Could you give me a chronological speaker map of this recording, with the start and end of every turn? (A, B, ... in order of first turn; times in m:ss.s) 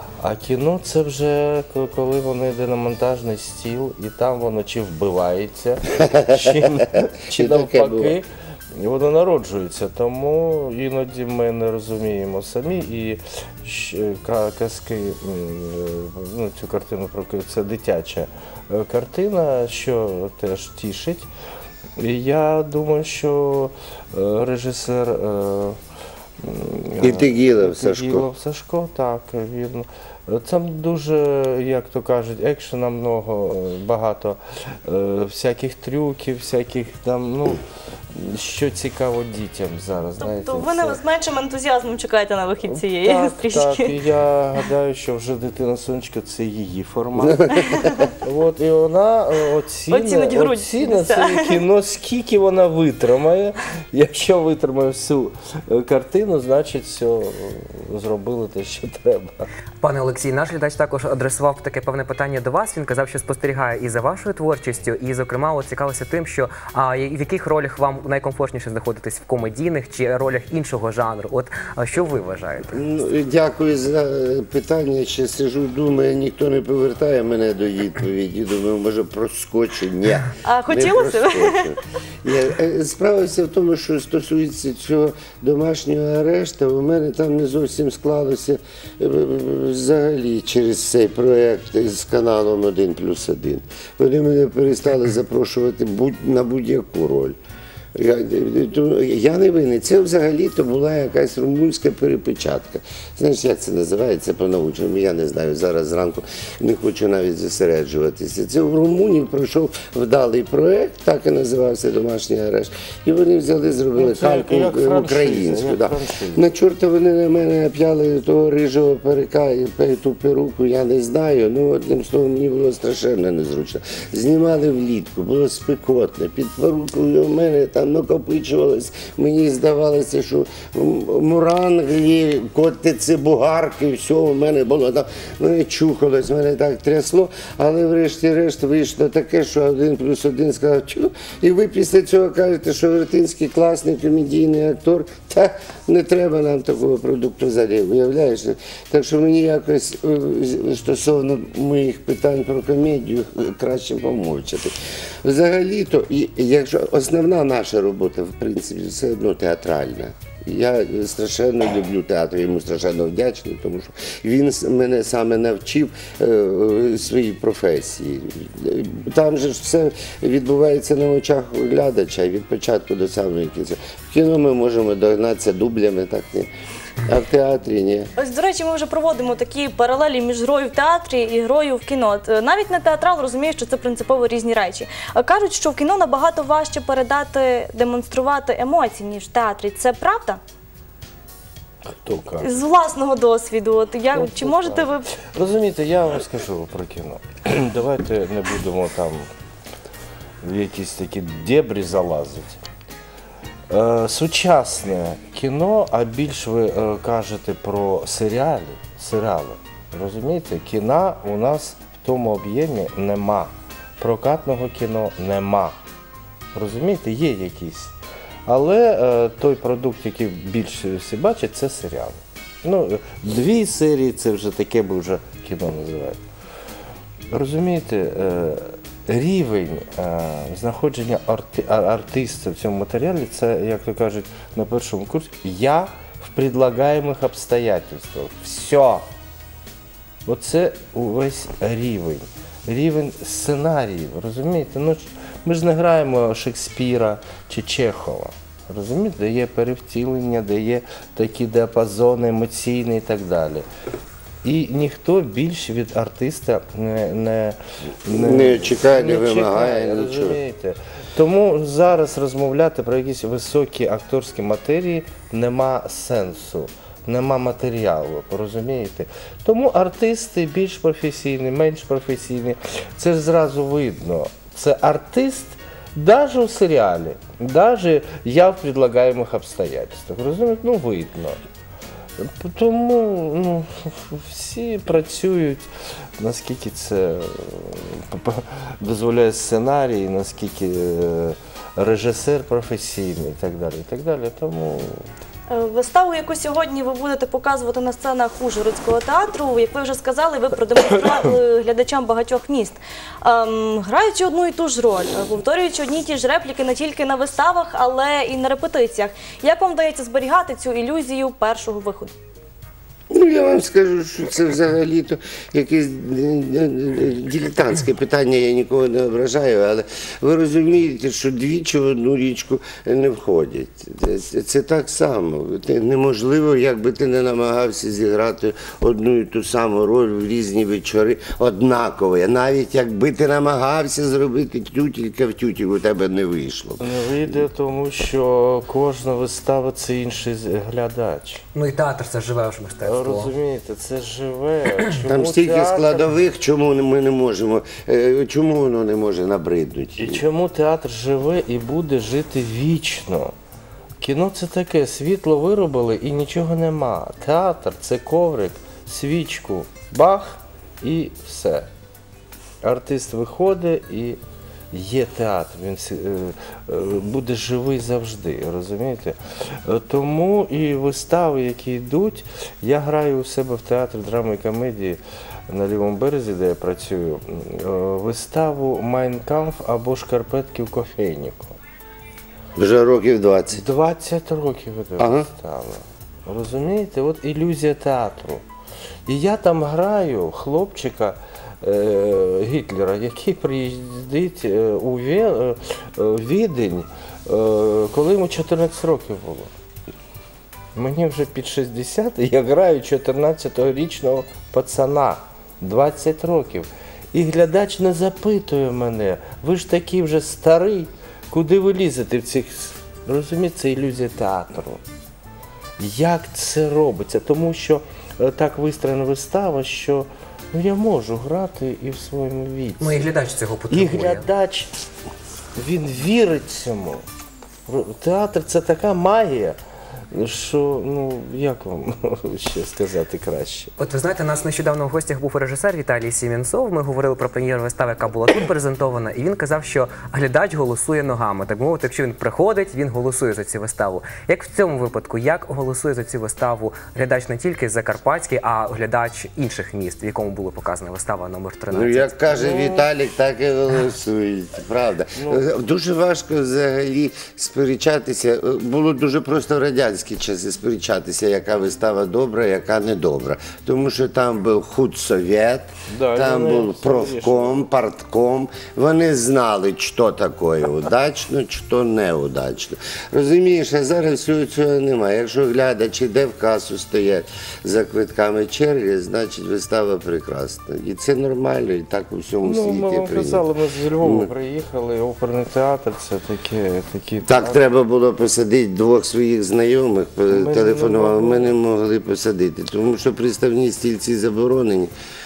0:00.2-0:21.3 A
0:06.0-0:06.7 B
0:07.3-0:08.2 B
0:22.0-0:25.8 A
0:26.4-0:37.6 A
0:27.0-0:28.3 B
0:38.1-0:41.0 A
0:40.2-0:43.9 C
0:42.6-0:59.5 A
0:47.2-0:47.9 B
0:49.9-0:51.6 C
0:59.8-1:12.9 D
1:12.7-1:37.4 B
1:20.4-1:21.7 C
1:38.0-2:56.5 B
1:54.0-1:56.5 A
2:57.0-2:58.1 B
2:58.2-3:10.4 C
3:11.9-3:12.6 A
3:12.4-3:15.1 C
3:14.1-3:19.3 A
3:20.4-3:22.6 A
3:23.7-3:35.8 A
3:36.6-3:37.9 A
3:38.5-3:46.2 A
3:47.3-3:59.1 A
4:00.3-4:13.6 A
4:14.4-4:41.4 A
4:18.1-4:20.4 B
4:42.2-4:45.7 A
4:46.2-4:55.1 A
4:55.5-5:12.1 C
5:13.1-5:36.8 B
5:36.8-5:41.4 A
5:41.6-5:43.3 D
5:42.8-5:46.1 A
5:45.0-5:50.2 B
5:50.0-5:53.3 A
5:54.0-6:01.7 A
6:02.6-6:04.2 A
6:04.7-6:21.6 A
6:22.6-6:23.6 B
6:23.5-6:28.4 A
6:25.0-6:25.3 B
6:29.1-6:39.5 A
6:40.8-6:54.8 A
6:55.8-7:03.1 A
7:02.8-7:04.3 D
7:03.7-7:04.7 A
7:05.6-7:07.1 A
7:07.7-7:09.6 A
7:10.1-7:13.7 A
7:13.8-7:32.7 D
7:31.7-8:03.4 B
7:35.2-7:35.5 A
7:45.9-7:47.7 A
8:02.4-8:07.6 A
8:04.0-8:04.3 B
8:07.2-8:14.9 B
8:10.3-8:11.6 A